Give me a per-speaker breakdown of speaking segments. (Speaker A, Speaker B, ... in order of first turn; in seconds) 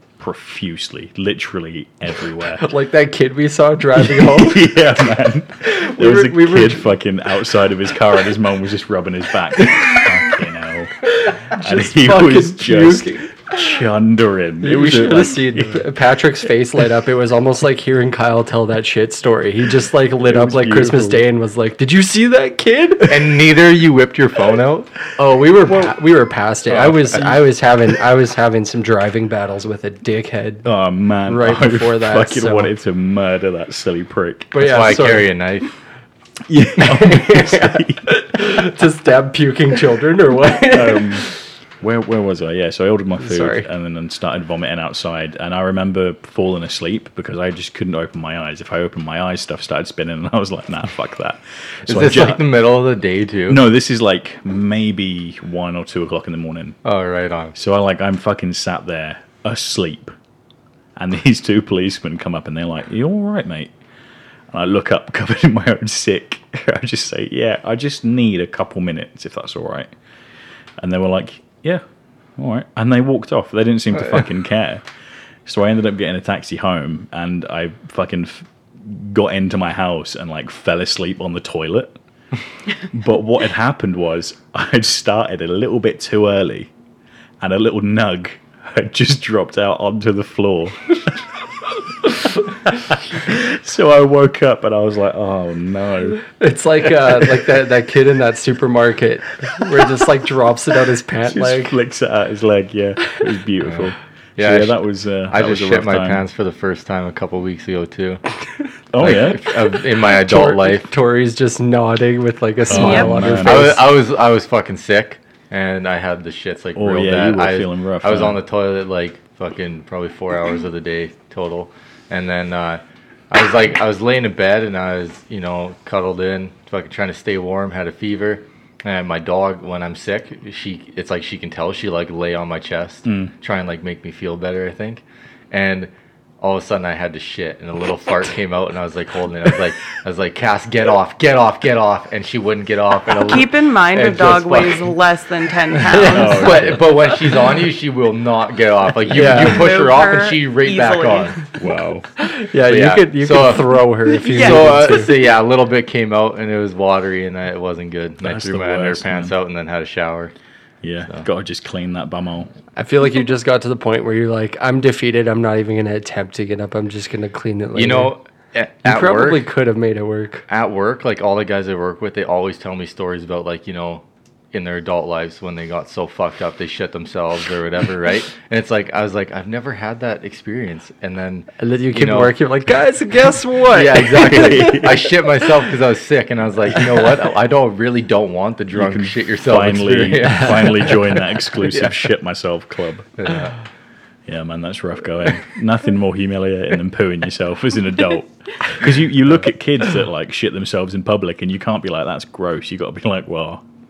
Speaker A: 0.2-2.7, 4.0-15.9, 20.2-21.2, 30.6-34.6, 36.5-38.0, 40.7-41.3, 41.8-52.4, 53.5-56.8, 57.5-60.1, 61.0-63.7, 64.5-69.9, 70.8-71.8, 72.4-74.8, 75.5-82.0, 82.8-86.7, 87.4-91.2, 91.8-96.2, 101.3-106.2, 108.9-109.7, 112.7-113.8, 116.8-118.4, 133.1-133.3, 146.1-146.8, 151.6-152.1, 158.2-159.3, 160.8-162.5, 184.2-185.0, 188.7-193.1, 194.3-203.6
Speaker B: 2.5-4.7, 5.6-6.9, 11.2-13.3, 14.6-23.4, 25.2-30.7, 31.3-32.7, 34.5-35.3, 36.8-41.3, 43.2-43.7, 96.4-101.8, 110.1-113.8, 145.9-146.5, 149.1-149.6, 152.2-155.1, 162.8-168.1, 168.8-170.4, 181.6-184.9
Speaker C: 23.1-25.1, 25.7-25.9, 26.7-27.4, 34.6-35.7, 51.9-53.6, 56.8-57.5, 103.7-108.2, 109.0-110.9, 113.2-144.9, 145.9-151.4, 152.7-160.3, 167.7-169.5, 170.5-182.3, 183.7-191.9, 193.2-193.6
Speaker D: 112.7-113.2, 143.1-146.8, 149.3-151.4, 154.2-154.9